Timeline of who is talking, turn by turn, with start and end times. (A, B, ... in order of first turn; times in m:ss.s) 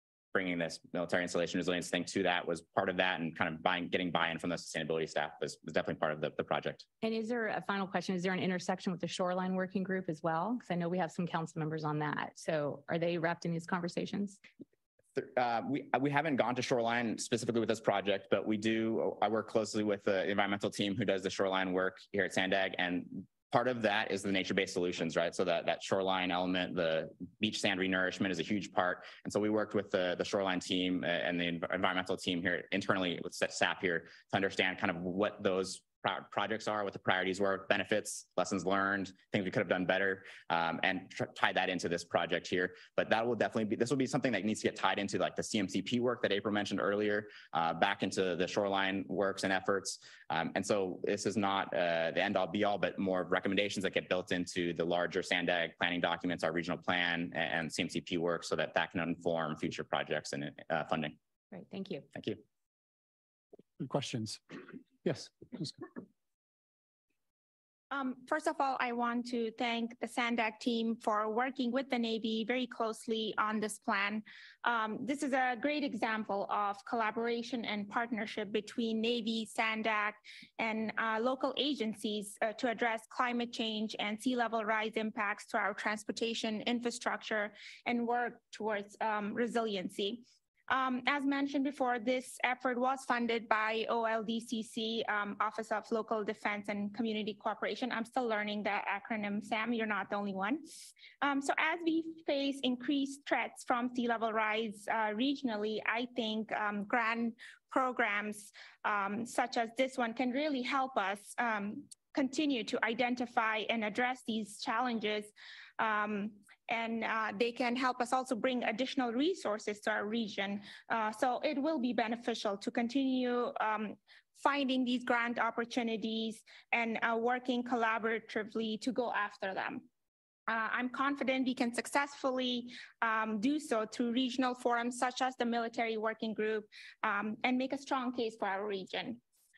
0:00.3-0:06.8 A
0:07.0-0:14.4 B
0:15.2-1:01.2 A
1:01.5-1:02.0 B
1:02.1-1:02.4 A
1:03.8-1:05.8 C
1:07.9-1:40.6 D
1:41.2-2:09.8 D
2:10.5-2:19.2 D